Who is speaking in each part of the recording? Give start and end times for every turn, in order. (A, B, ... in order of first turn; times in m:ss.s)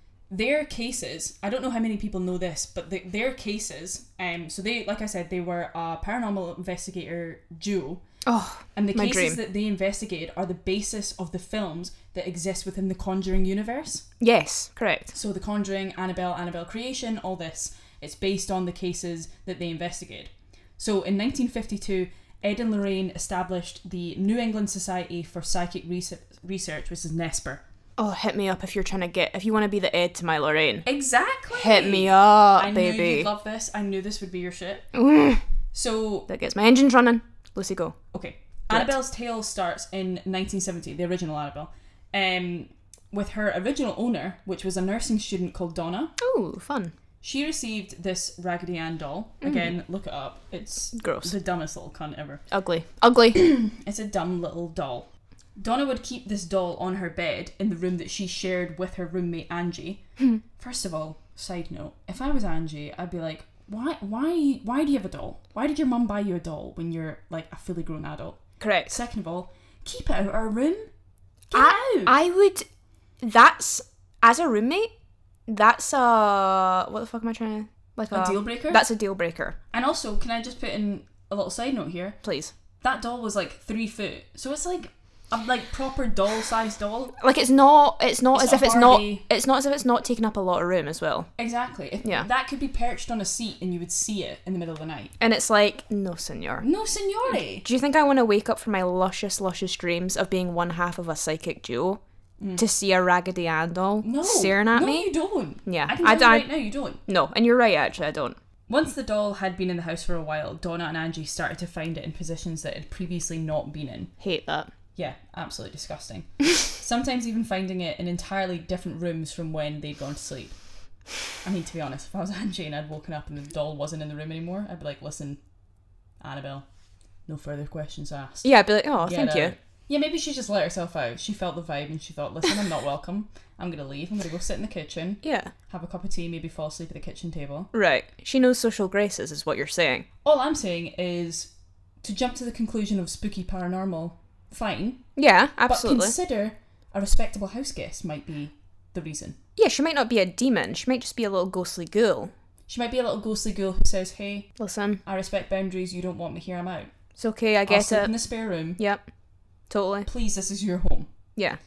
0:00.3-0:08.0 A
0:08.2-0:09.4 B
0:08.8-0:14.0 A
0:14.2-0:15.1 B
0:15.1-0:27.6 A
0:28.0-0:30.9 B
0:30.8-0:34.9 A
0:31.5-0:33.3 B
0:34.9-0:35.4 B
0:35.7-0:36.3 A
0:36.3-0:38.0 B
0:38.1-0:46.1 A
0:46.2-0:46.9 B
0:47.2-0:52.4 A
0:49.4-0:49.7 B
0:50.9-0:51.3 B
0:52.5-0:53.4 B
0:53.3-1:10.9 A
1:08.6-1:08.9 B
1:11.5-1:12.1 A
1:11.5-1:12.6 B
1:13.2-1:14.9 B
1:15.5-1:19.6 B
1:18.1-1:18.8 A
1:19.7-1:22.2 A
1:22.2-1:22.5 B
1:22.8-1:27.1 A
1:27.2-1:31.3 B
1:28.3-1:29.2 A
1:31.4-1:35.1 A
1:32.0-1:32.3 B
1:35.2-1:36.6 B
1:36.6-1:37.6 A
1:37.3-1:42.0 B
1:42.6-1:45.1 B
1:44.0-1:47.0 A
1:45.6-1:46.5 B
1:47.0-1:48.4 B
1:48.7-1:54.1 A
1:54.2-1:54.7 B
1:55.0-2:00.6 A
2:01.4-2:05.4 A
2:06.2-2:06.6 A
2:07.3-2:08.5 A
2:08.4-2:09.5 B
2:09.0-2:17.7 A
2:15.2-2:15.5 B
2:17.7-2:20.1 B
2:20.2-2:21.5 A
2:22.0-2:25.1 A
2:25.2-2:26.1 B
2:25.7-2:29.4 A
2:29.6-2:32.3 B
2:32.7-2:34.5 A
2:34.6-2:35.0 B
2:35.0-2:36.9 A
2:37.2-2:38.1 B
2:37.7-2:38.8 A
2:38.8-2:39.0 B
2:39.7-2:40.1 B
2:40.1-2:41.1 A